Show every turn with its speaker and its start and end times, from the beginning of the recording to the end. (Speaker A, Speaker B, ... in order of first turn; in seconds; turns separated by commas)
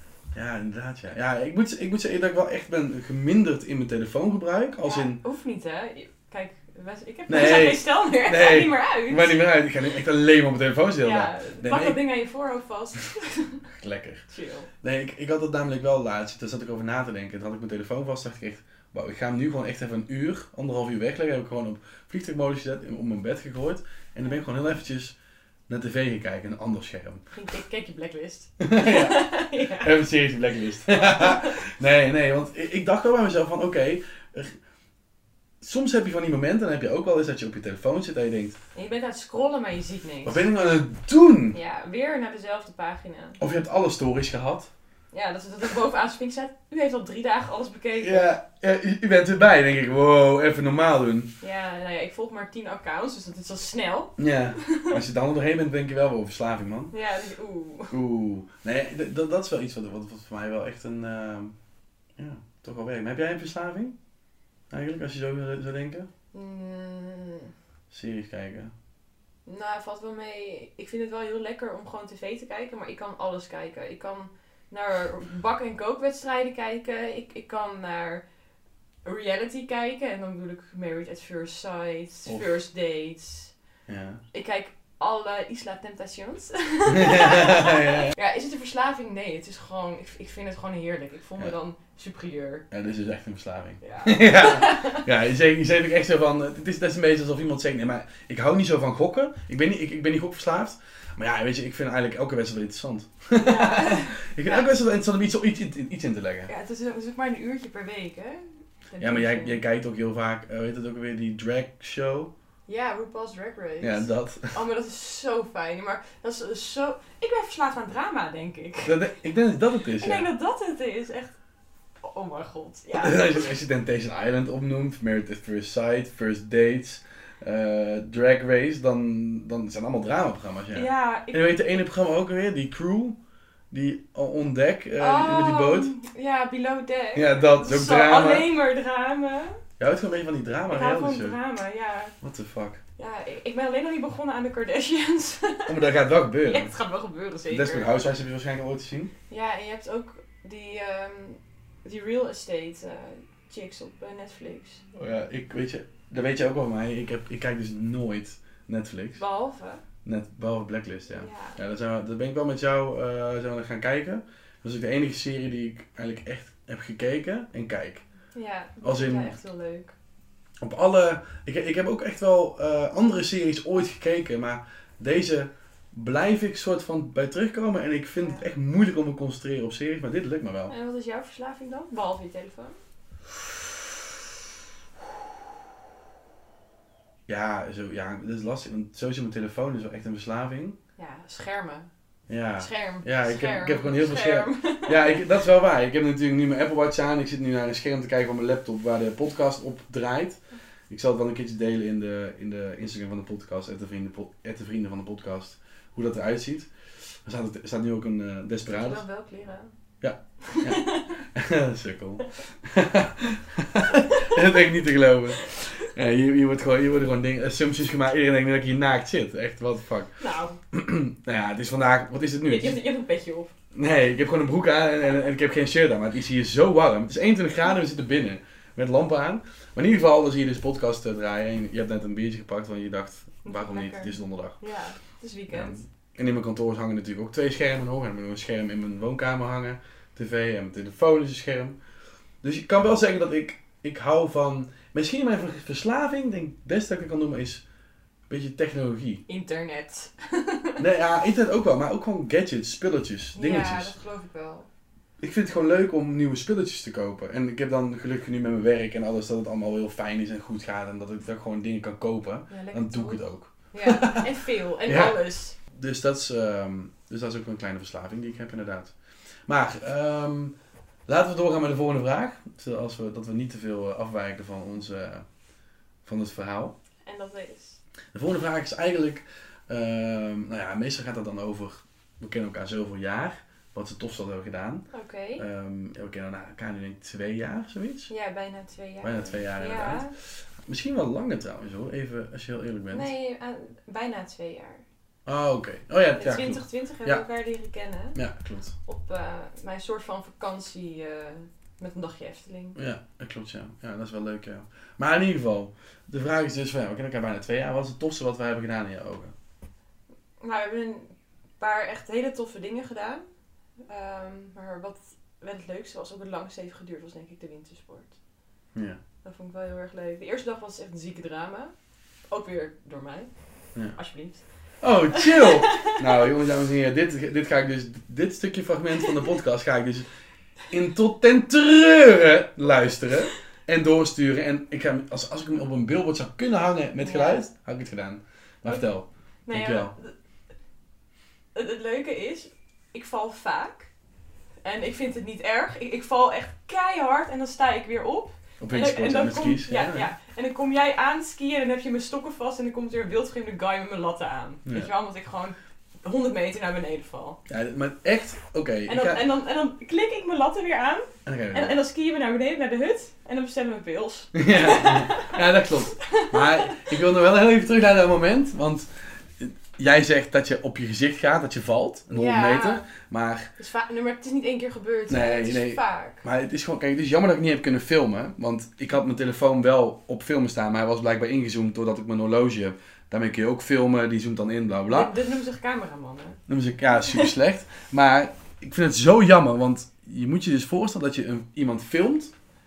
Speaker A: 0.3-5.2, Speaker B: 4.8-9.4, Speaker A: 7.3-12.0, Speaker B: 11.0-13.7, Speaker A: 13.7-14.2, Speaker B: 14.3-14.7, Speaker A: 14.8-25.2, Speaker A: 25.7-27.2, Speaker B: 27.3-30.1, Speaker A: 28.6-34.6, Speaker B: 31.1-31.6, Speaker A: 35.6-38.6, Speaker B: 38.8-40.4, Speaker A: 40.2-41.6, Speaker B: 41.5-43.4, Speaker A: 43.4-44.7, Speaker B: 45.1-48.3, Speaker A: 48.0-51.3, Speaker B: 51.4-55.0, Speaker A: 54.2-56.9, Speaker B: 56.9-58.0, Speaker A: 57.9-61.5, Speaker A: 62.2-64.0, Speaker A: 64.7-66.1, Speaker B: 66.3-67.5, Speaker A: 67.9-68.7, Speaker B: 69.5-78.2, Speaker B: 79.0-83.5, Speaker A: 83.9-84.2, Speaker B: 84.3-92.7, Speaker A: 86.9-88.1, Speaker A: 92.7-106.5, Speaker B: 93.8-95.1, Speaker B: 103.4-104.7, Speaker B: 106.5-109.6, Speaker A: 109.0-112.3, Speaker B: 112.7-119.1, Speaker A: 113.8-114.6, Speaker A: 118.8-120.3, Speaker B: 120.0-121.3, Speaker B: 122.0-123.5, Speaker A: 122.9-133.2, Speaker B: 130.7-131.6, Speaker A: 133.7-135.9, Speaker B: 135.0-139.6, Speaker A: 137.2-138.5, Speaker A: 139.8-141.4, Speaker B: 140.7-142.2, Speaker A: 142.2-142.8, Speaker B: 143.0-145.8, Speaker A: 145.7-146.7, Speaker B: 146.5-147.9, Speaker A: 147.5-149.1, Speaker B: 149.3-154.8, Speaker A: 154.9-159.2, Speaker B: 159.2-159.8, Speaker A: 160.1-168.0, Speaker B: 161.1-161.6, Speaker B: 168.3-169.9, Speaker A: 168.8-169.4, Speaker A: 170.6-180.7, Speaker B: 180.7-182.8, Speaker A: 187.3-190.8, Speaker B: 191.0-191.9, Speaker A: 192.3-206.7, Speaker B: 192.6-195.3, Speaker A: 207.2-209.0, Speaker B: 208.7-209.7, Speaker A: 210.0-220.2, Speaker B: 210.4-211.2, Speaker B: 220.2-220.6, Speaker A: 220.7-222.8, Speaker B: 222.5-223.5, Speaker A: 223.7-234.6, Speaker B: 233.4-235.8, Speaker A: 235.5-241.8, Speaker A: 242.4-247.6, Speaker A: 248.3-249.2, Speaker B: 249.3-250.8, Speaker A: 250.8-253.9, Speaker B: 253.3-254.7, Speaker A: 255.2-264.3, Speaker B: 262.5-265.6, Speaker A: 264.9-268.9, Speaker A: 269.5-270.5, Speaker A: 271.1-275.2, Speaker A: 276.1-276.7, Speaker B: 277.0-277.8, Speaker A: 278.1-288.1, Speaker B: 284.9-285.4, Speaker B: 288.1-290.1, Speaker A: 289.0-290.1, Speaker A: 290.7-293.1, Speaker B: 292.9-294.8, Speaker A: 295.3-297.2, Speaker B: 296.1-298.2, Speaker A: 298.1-298.7, Speaker B: 298.9-302.8, Speaker A: 302.8-309.3, Speaker B: 310.4-313.2, Speaker B: 313.9-318.1, Speaker A: 318.8-319.0, Speaker B: 319.2-321.7, Speaker B: 322.3-323.3, Speaker B: 323.9-324.4, Speaker A: 324.8-330.1, Speaker B: 325.1-326.0, Speaker A: 330.7-339.9, Speaker B: 337.0-337.4, Speaker B: 339.5-340.1, Speaker B: 341.5-343.9, Speaker B: 344.6-357.4, Speaker A: 348.6-350.1, Speaker A: 354.6-354.9, Speaker A: 357.5-359.2, Speaker B: 358.9-367.0, Speaker A: 361.3-361.8, Speaker A: 364.3-368.9, Speaker A: 369.4-373.5, Speaker B: 372.1-372.9, Speaker B: 373.6-376.2, Speaker A: 375.1-385.1, Speaker B: 384.9-386.4, Speaker A: 386.5-392.3